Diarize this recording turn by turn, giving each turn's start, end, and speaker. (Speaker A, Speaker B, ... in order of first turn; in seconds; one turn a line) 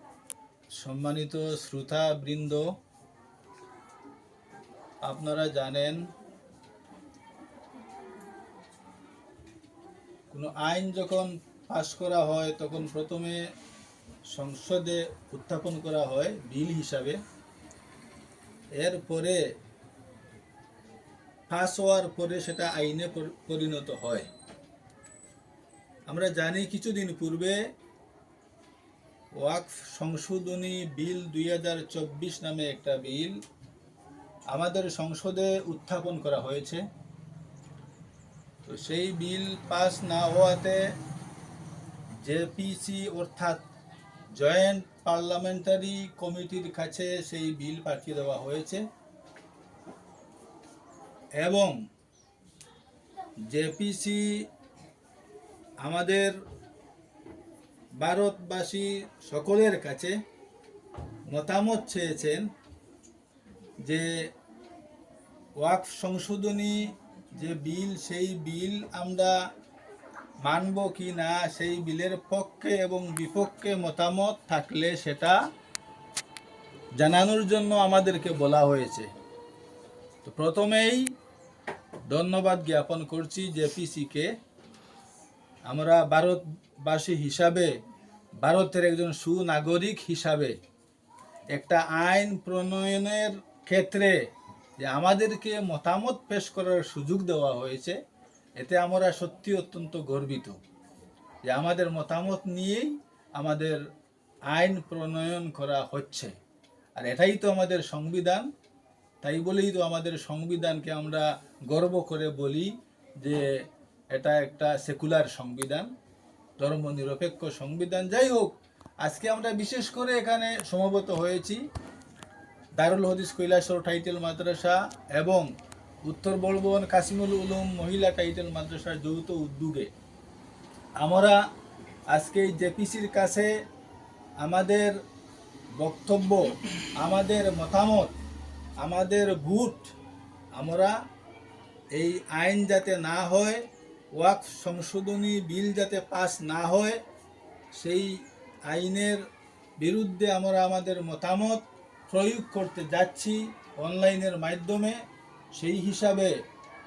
Speaker A: 0.8-2.7
Speaker A: 5.0-6.0
Speaker A: 10.3-13.4
Speaker A: 14.3-17.2
Speaker A: 18.8-19.4
Speaker A: 21.5-24.3
Speaker A: 26.1-27.6
Speaker A: 29.4-33.4
Speaker A: 34.5-36.8
Speaker A: 38.7-40.8
Speaker A: 42.2-43.6
Speaker A: 44.3-48.8
Speaker A: 51.4-51.7
Speaker A: 53.5-54.4
Speaker A: 55.8-56.3
Speaker A: 58.0-60.1
Speaker A: 61.3-62.4
Speaker A: 63.8-64.1
Speaker A: 65.6-69.4
Speaker A: 70.4-75.4
Speaker A: 77.0-79.1
Speaker A: 80.2-81.0
Speaker A: 82.1-84.3
Speaker A: 85.7-87.7
Speaker A: 88.4-90.5
Speaker A: 91.5-94.1
Speaker A: 94.8-98.0
Speaker A: 98.6-100.6
Speaker A: 101.5-103.8
Speaker A: 104.5-106.3
Speaker A: 107.0-108.5
Speaker A: 109.2-112.7
Speaker A: 113.2-113.5
Speaker A: 114.1-115.9
Speaker A: 116.6-118.5
Speaker A: 119.0-121.6
Speaker A: 122.8-125.5
Speaker A: 126.1-129.9
Speaker A: 131.0-131.4
Speaker A: 132.1-133.5
Speaker A: 134.4-134.9
Speaker A: 135.8-136.4
Speaker A: 137.0-138.1
Speaker A: 138.8-139.9
Speaker A: 140.6-140.9
Speaker A: 141.9-143.6
Speaker A: 144.2-147.0
Speaker A: 147.8-148.1
Speaker A: 148.7-149.2
Speaker A: 149.8-155.0
Speaker A: 155.5-156.3